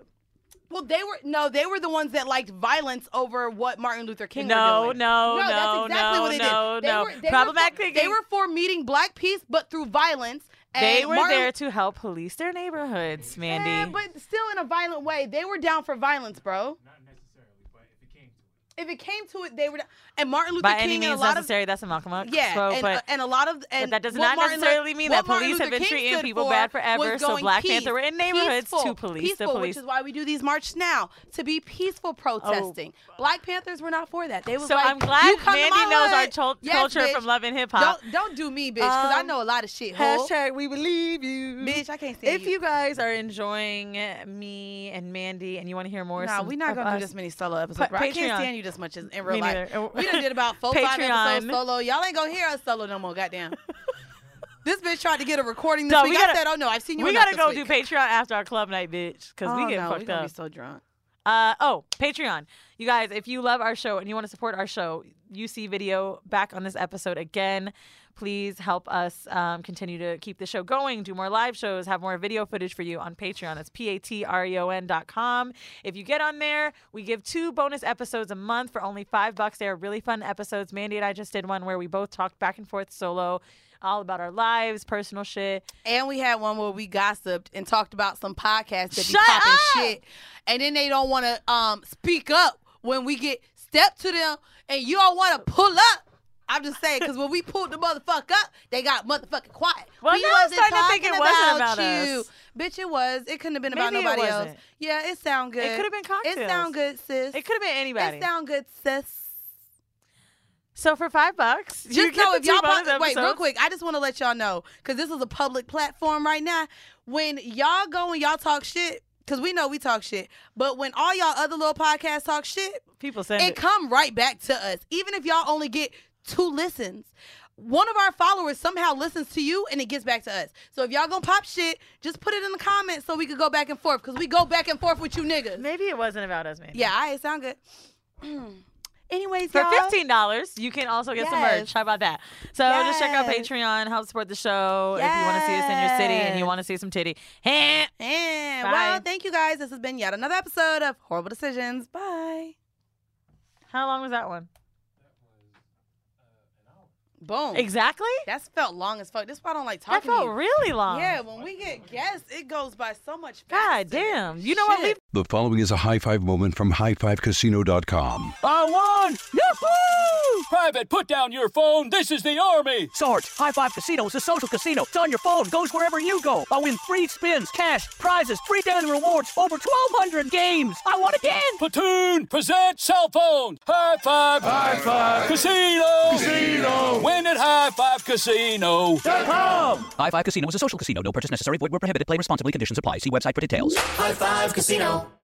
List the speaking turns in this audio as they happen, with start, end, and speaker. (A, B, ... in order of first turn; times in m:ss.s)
0:00.7-0:11.5 A
0:04.4-0:08.2 B
0:10.8-0:14.0 B
0:13.4-0:16.8 A
0:18.8-0:21.5 A
0:20.6-0:23.0 B
0:22.2-0:40.3 A
0:23.8-0:29.8 B
0:32.4-0:32.8 B
0:34.6-0:38.0 B
0:38.8-0:39.3 B
0:39.9-0:47.1 B
0:41.6-0:42.5 A
0:46.2-0:53.6 A
0:47.7-0:48.5 B
0:49.2-0:51.6 B
0:54.6-0:57.7 A
0:55.9-0:56.4 B
0:57.0-1:00.3 B
0:59.4-1:00.8 A
1:01.2-1:25.7 B
1:25.8-1:47.4 A
1:28.9-1:30.0 B
1:40.0-1:42.3 B
1:43.7-1:44.6 B
1:45.6-1:46.7 B
1:47.3-1:48.3 B
1:48.0-1:49.4 A
1:50.7-1:53.4 B
1:51.9-2:02.8 A
2:03.0-2:03.6 B
2:03.4-2:15.6 A
2:15.6-2:16.9 B
2:16.7-2:17.6 A
2:18.2-2:20.0 A
2:19.5-2:27.9 B
2:21.2-2:21.7 A
2:22.6-2:23.5 A
2:24.9-2:26.5 A
2:28.0-2:32.5 A
2:28.6-2:29.0 B
2:33.7-2:34.5 B
2:37.2-2:37.7 A
2:37.5-2:38.3 B
2:38.2-2:40.3 A
2:39.9-2:41.2 B
2:40.8-2:45.0 A
2:43.5-2:45.0 B
2:45.1-2:48.4 C
2:48.4-2:50.5 D
2:50.5-2:52.9 E
2:52.9-3:01.6 D
3:01.6-3:09.1 E
3:10.0-3:15.1 F